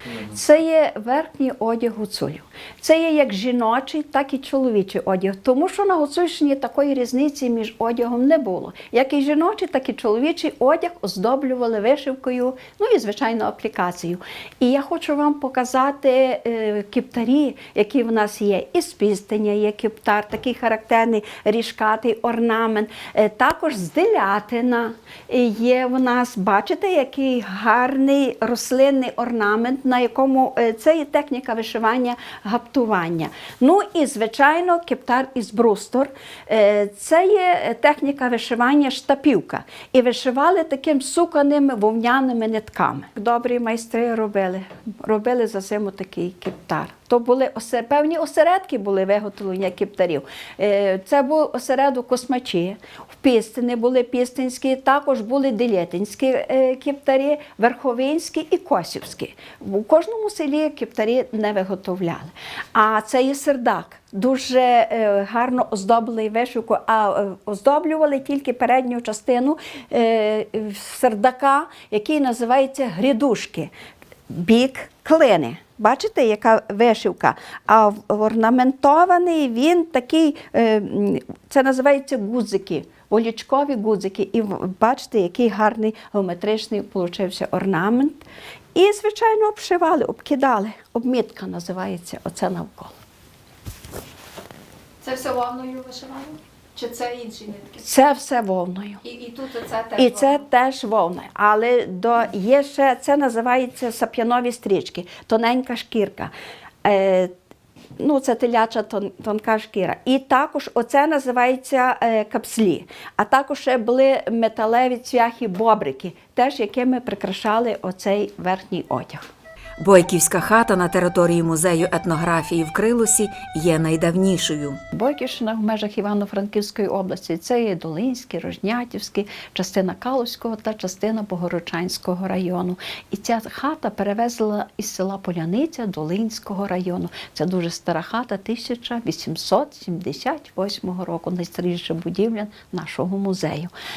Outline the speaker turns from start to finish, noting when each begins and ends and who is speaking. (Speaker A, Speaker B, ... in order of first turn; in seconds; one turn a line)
Speaker A: 0.3-73.7
Speaker A: 74.3-88.2
Speaker A: 88.8-93.0
Speaker B: 95.0-97.8
Speaker A: 97.8-99.0
Speaker B: 99.0-100.5
Speaker A: 100.0-106.3
Speaker A: 106.8-107.3
Speaker A: 108.0-119.2
Speaker C: 119.8-124.8
Speaker A: 124.9-143.7